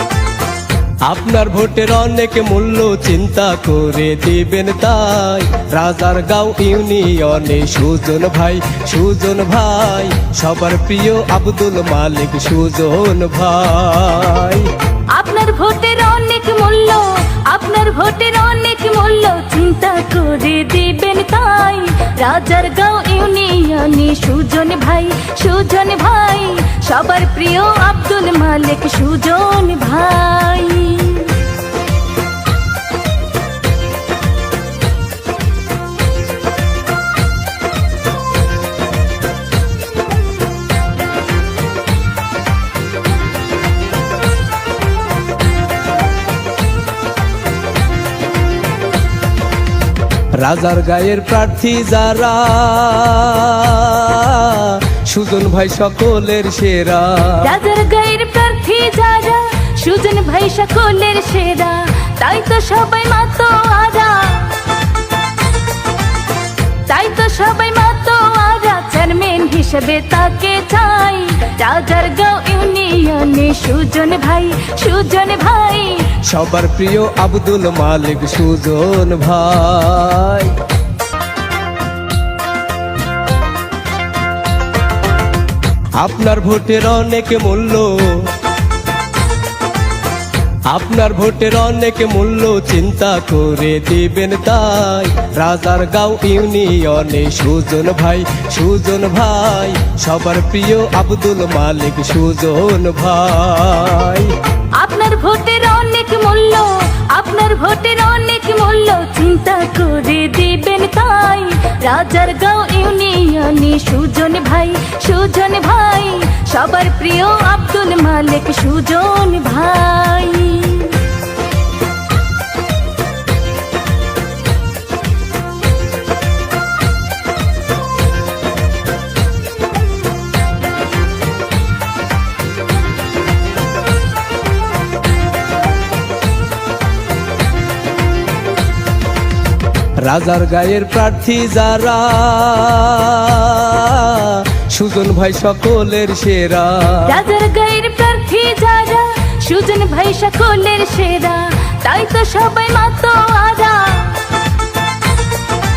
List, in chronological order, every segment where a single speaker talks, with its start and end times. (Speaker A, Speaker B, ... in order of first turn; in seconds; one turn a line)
Speaker A: 1.0-14.7
Speaker B: 15.1-31.4
Speaker A: 50.3-57.5
Speaker B: 57.4-64.7
Speaker B: 66.9-76.2
Speaker A: 76.2-80.5
Speaker A: 85.9-88.3
Speaker A: 90.7-104.3
Speaker B: 104.7-121.1
Speaker A: 140.0-147.1
Speaker B: 147.1-154.3